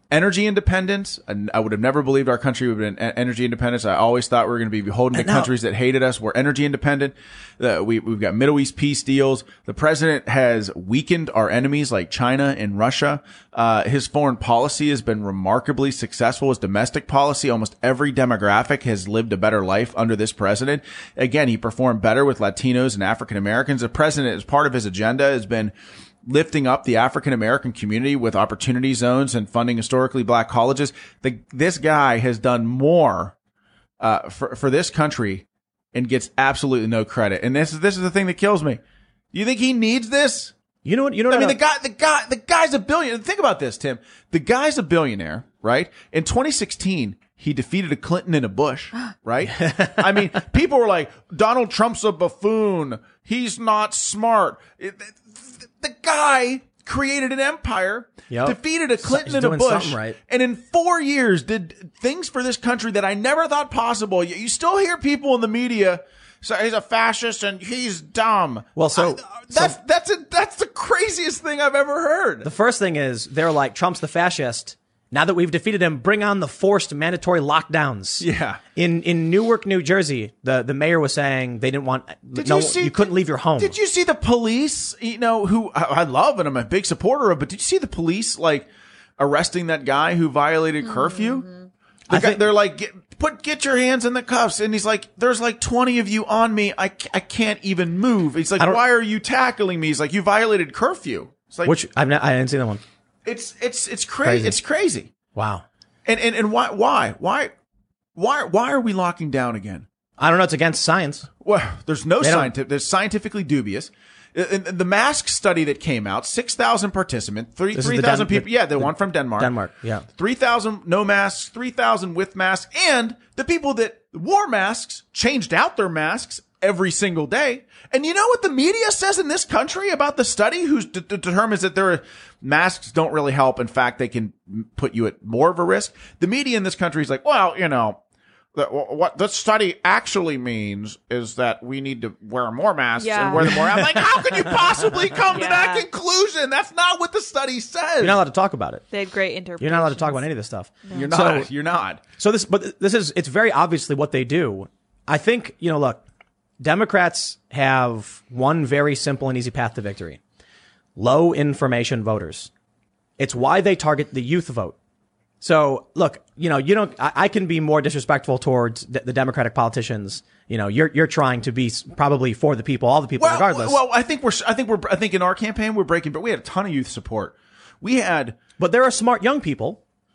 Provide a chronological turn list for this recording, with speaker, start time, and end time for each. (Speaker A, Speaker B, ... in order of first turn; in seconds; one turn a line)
Speaker A: 0.1-25.7
Speaker B: 5.1-5.5
Speaker A: 26.2-33.3
Speaker A: 34.0-38.8
Speaker A: 39.3-40.5
Speaker B: 40.9-41.6
Speaker A: 41.3-72.5
Speaker B: 49.5-50.0
Speaker B: 58.3-60.2
Speaker B: 68.8-69.8
Speaker B: 72.4-83.8
Speaker A: 78.2-78.6
Speaker A: 82.3-88.7
Speaker A: 89.2-91.5
Speaker C: 91.0-91.5
Speaker B: 92.1-92.4
Speaker A: 92.1-101.8
Speaker B: 101.6-102.8
Speaker A: 103.2-105.1
Speaker B: 104.2-104.5
Speaker B: 105.3-105.6
Speaker A: 106.1-107.5
Speaker A: 108.2-109.9
Speaker B: 110.2-111.3
Speaker A: 111.4-119.5
Speaker B: 112.2-112.5
Speaker B: 117.7-120.0
Speaker A: 120.1-138.0
Speaker A: 138.6-148.2
Speaker C: 143.0-143.7
Speaker B: 143.4-145.0
Speaker C: 145.3-145.9
Speaker B: 148.0-148.8
Speaker C: 148.9-150.2
Speaker B: 149.6-151.5
Speaker A: 150.9-152.0
Speaker B: 152.2-156.0
Speaker B: 156.6-160.2
Speaker B: 161.0-162.5
Speaker B: 163.2-164.8
Speaker B: 165.4-173.8
Speaker A: 173.2-178.4
Speaker B: 178.6-179.8